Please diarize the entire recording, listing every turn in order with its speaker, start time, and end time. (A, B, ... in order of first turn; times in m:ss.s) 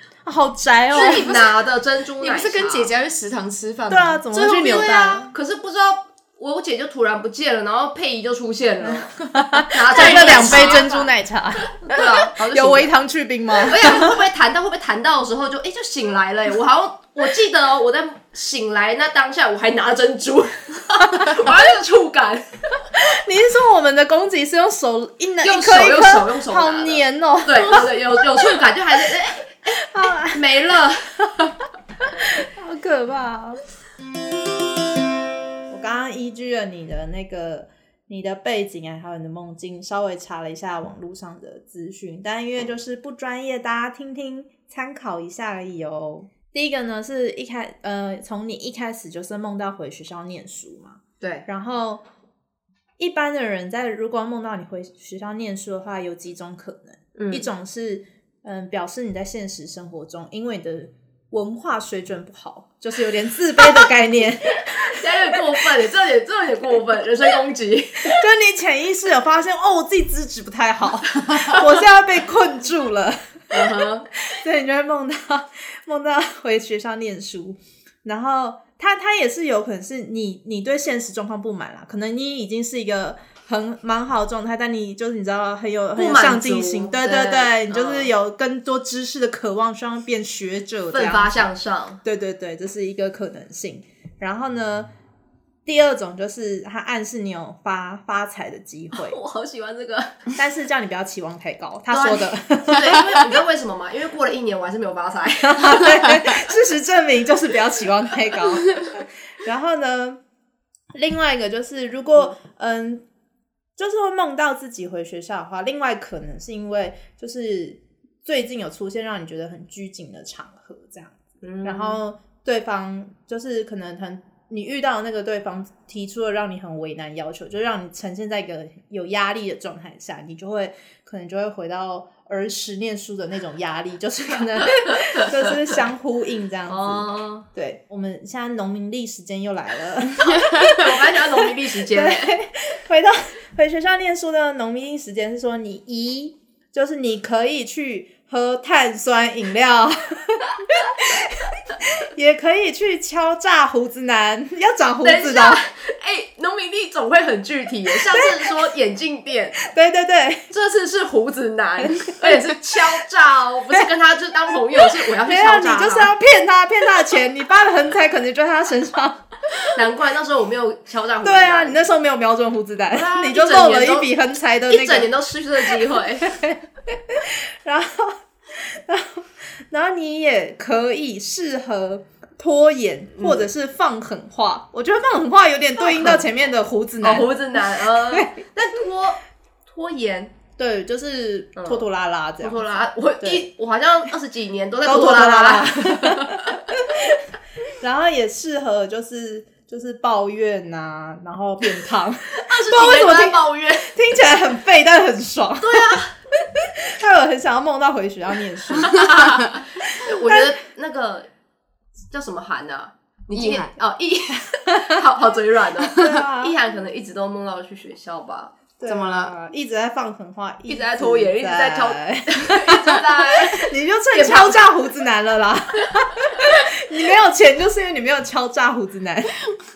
0:00.2-0:01.4 A
0:00.9-0:02.9 B
0:01.0-0:01.4 C
0:02.2-0:05.0 C
0:03.9-0:05.3 A
0:04.3-0:09.2 B
0:09.1-0:14.2 A
0:09.7-0:10.8 B
0:09.9-0:11.1 C
0:11.9-0:12.9 B
0:13.6-0:22.9 B
0:21.0-0:21.4 A
0:22.9-0:29.1 A
0:25.4-0:29.6 B
0:29.8-0:30.4 A
0:30.3-0:31.6 B
0:32.2-0:33.6 A
0:35.7-0:52.0 A
0:51.2-0:51.5 B
0:53.0-1:05.0 A
0:57.2-0:57.5 B
1:04.7-1:08.2 B
1:08.1-1:31.5 A
1:13.5-1:14.1 B
1:26.0-1:28.1 B
1:30.9-1:32.0 B
1:32.0-1:34.9 A
1:35.7-1:39.2 A
1:38.9-1:40.3 B
1:40.4-1:43.4 A
1:41.9-1:46.0 B
1:45.4-1:50.2 A
1:51.0-1:53.0 A
1:53.8-2:35.6 A
2:01.4-2:02.0 B
2:16.7-2:17.5 B
2:20.2-2:22.4 B
2:35.0-2:39.6 B
2:38.2-2:38.5 A
2:39.6-2:40.5 A
2:40.5-2:46.1 B
2:41.8-2:42.8 A
2:44.8-2:49.7 A
2:49.7-2:51.8 B
2:51.2-2:55.1 A
2:52.9-2:54.1 B
2:54.7-2:56.3 B
2:55.7-3:07.3 A
3:03.2-3:03.4 B
3:05.9-3:06.2 B
3:07.0-3:10.4 B
3:10.6-3:12.6 A
3:11.6-3:11.8 B
3:12.4-3:16.6 B
3:13.2-3:13.5 A
3:14.8-3:17.2 A
3:17.8-3:30.4 A
3:22.4-3:23.9 B
3:25.6-3:26.1 B
3:28.9-3:31.3 B
3:32.1-3:38.5 B
3:33.3-3:33.7 C
3:35.8-3:36.6 A
3:38.8-3:49.4 A
3:38.8-3:39.3 C
3:40.7-3:44.6 B